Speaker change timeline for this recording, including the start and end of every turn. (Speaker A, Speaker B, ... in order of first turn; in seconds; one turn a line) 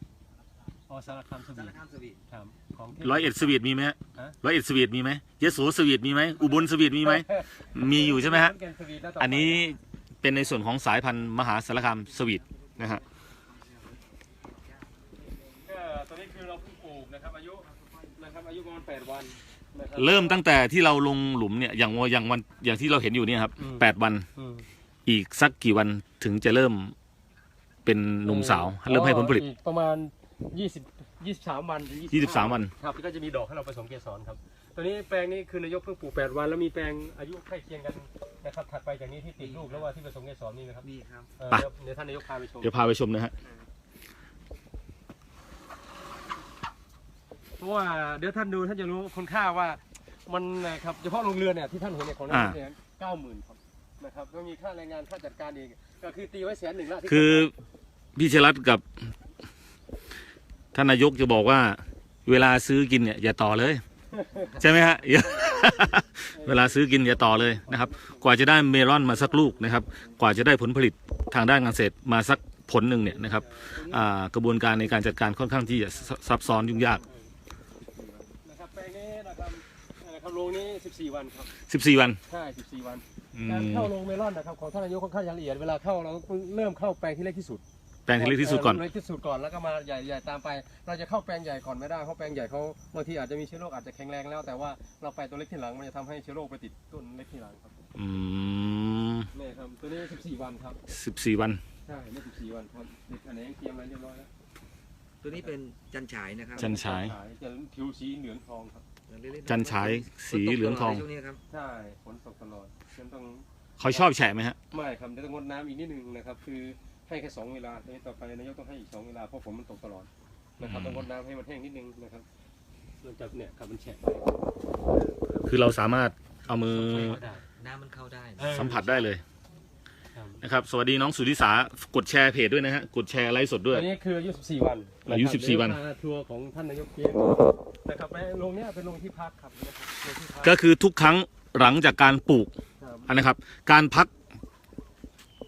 Speaker A: 0.9-1.8
Speaker B: 1.5-2.2
Speaker A: 2.3-3.6
Speaker C: 3.0-8.6
Speaker A: 7.0-9.8
Speaker C: 9.2-13.0
Speaker B: 12.1-15.3
Speaker A: 15.7-20.4
Speaker C: 20.0-24.3
Speaker A: 23.6-24.7
Speaker C: 25.1-26.9
Speaker C: 27.9-29.4
Speaker A: 28.2-40.9
Speaker C: 32.1-32.7
Speaker B: 39.4-39.9
Speaker B: 40.8-41.3
Speaker A: 41.4-42.8
Speaker C: 42.6-43.3
Speaker A: 47.6-57.5
Speaker C: 52.3-52.6
Speaker C: 57.1-57.5
Speaker C: 58.2-58.8
Speaker C: 60.7-63.8
Speaker A: 64.1-64.6
Speaker C: 64.6-77.0
Speaker A: 66.3-69.8
Speaker A: 73.0-73.8
Speaker B: 73.8-74.0
Speaker A: 77.0-77.3
Speaker A: 78.4-81.5
Speaker C: 81.7-82.2
Speaker A: 82.3-87.6
Speaker C: 83.3-83.9
Speaker C: 88.1-88.8
Speaker A: 88.2-97.8
Speaker C: 98.0-99.3
Speaker A: 99.3-100.8
Speaker C: 100.9-101.6
Speaker A: 101.8-104.3
Speaker B: 105.2-106.7
Speaker A: 106.6-108.8
Speaker C: 106.6-107.1
Speaker B: 109.1-111.4
Speaker C: 109.5-111.0
Speaker A: 111.5-114.1
Speaker C: 113.8-114.6
Speaker A: 114.7-120.1
Speaker A: 120.6-122.2
Speaker C: 120.6-121.1
Speaker A: 123.0-125.4
Speaker C: 125.5-127.2
Speaker A: 126.6-127.4
Speaker B: 127.6-129.1
Speaker A: 128.4-128.8
Speaker C: 128.5-129.2
Speaker A: 130.2-130.4
Speaker C: 130.4-133.9
Speaker A: 133.7-140.6
Speaker C: 135.1-135.8
Speaker C: 140.4-142.5
Speaker A: 142.8-143.1
Speaker C: 143.1-144.1